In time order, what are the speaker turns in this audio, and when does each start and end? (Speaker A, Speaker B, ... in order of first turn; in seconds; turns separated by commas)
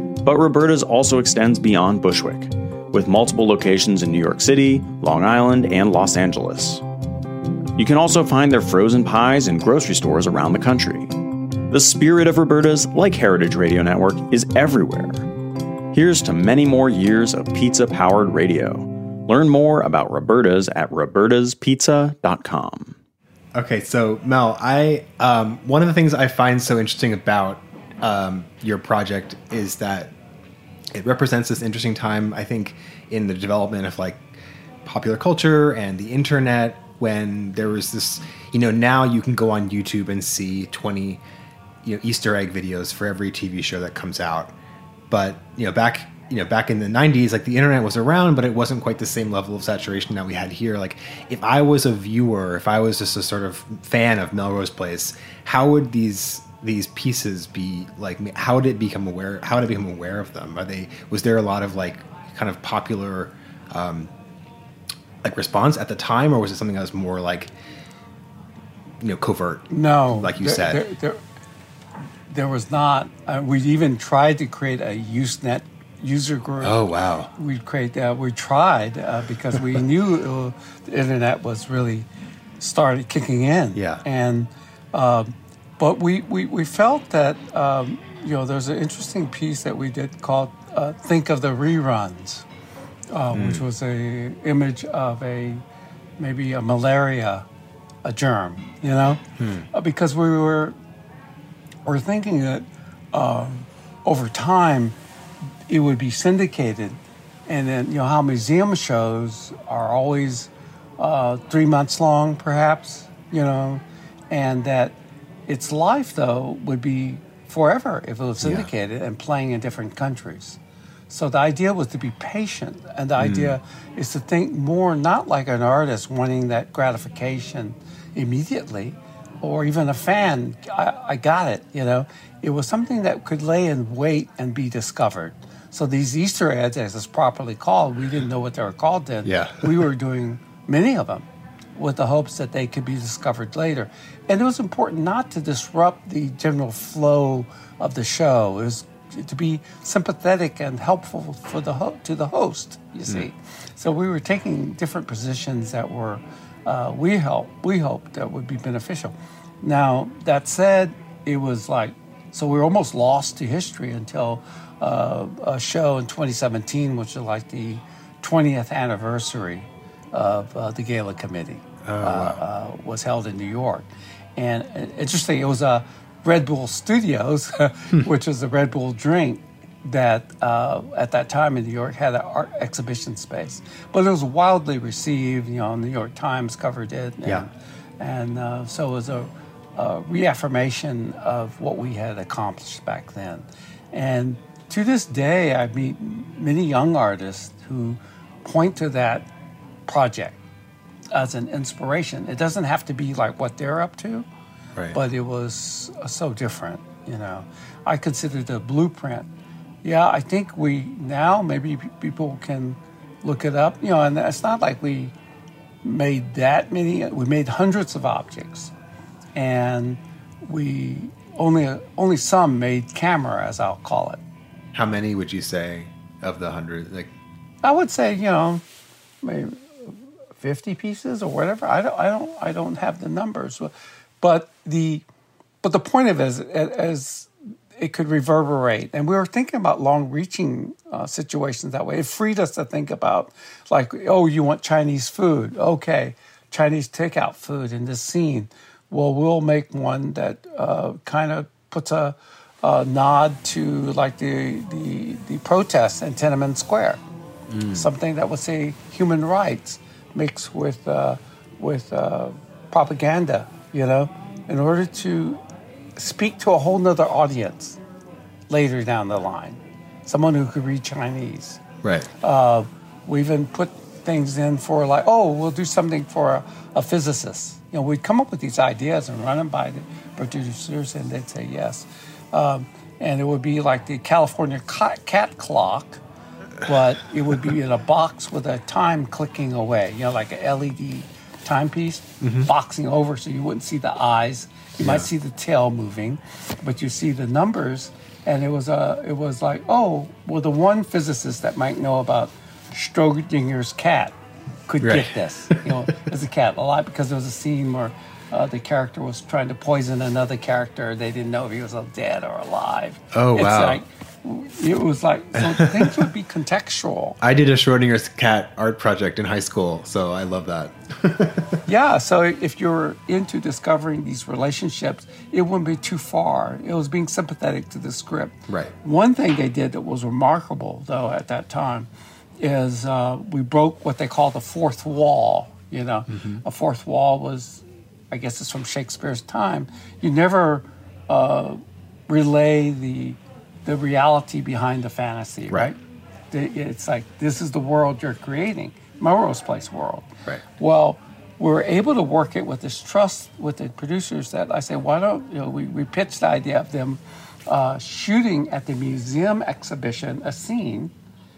Speaker A: 0.2-6.8, Speaker A: 7.8-11.1, Speaker A: 11.7-15.2, Speaker A: 15.9-22.9, Speaker B: 23.5-30.1, Speaker B: 30.9-34.3, Speaker B: 34.8-41.2, Speaker B: 41.8-44.5, Speaker B: 45.1-64.1, Speaker B: 65.2-67.5, Speaker B: 69.0-70.8, Speaker C: 69.7-71.2, Speaker C: 72.3-82.1, Speaker B: 76.6-77.3, Speaker C: 82.6-92.4, Speaker B: 83.7-84.0, Speaker C: 93.1-95.6, Speaker B: 93.3-93.7, Speaker C: 96.2-97.5, Speaker C: 98.0-100.8, Speaker B: 99.4-99.7, Speaker C: 101.8-105.0, Speaker C: 105.7-199.3, Speaker B: 118.4-118.7, Speaker B: 123.2-123.6, Speaker B: 139.2-139.8, Speaker B: 171.8-172.4, Speaker C: 199.9-200.4, Speaker C: 201.1-204.2, Speaker C: 204.9-209.3, Speaker C: 209.8-215.1, Speaker C: 215.8-218.7, Speaker C: 219.3-224.2, Speaker B: 224.7-227.1, Speaker C: 227.6-228.6, Speaker C: 229.2-235.0, Speaker C: 235.6-257.0, Speaker B: 257.5-257.9, Speaker C: 257.7-265.4, Speaker C: 265.9-267.8, Speaker C: 268.5-271.6, Speaker B: 271.8-272.1, Speaker C: 272.2-286.0, Speaker C: 286.6-304.1, Speaker B: 292.2-292.5, Speaker B: 294.8-295.1, Speaker C: 304.7-317.2, Speaker B: 304.8-305.7, Speaker B: 313.1-313.8, Speaker B: 315.4-316.0, Speaker B: 317.2-321.6, Speaker C: 321.6-331.9, Speaker B: 328.5-328.7, Speaker C: 332.4-345.8, Speaker B: 336.1-336.4, Speaker C: 346.3-360.9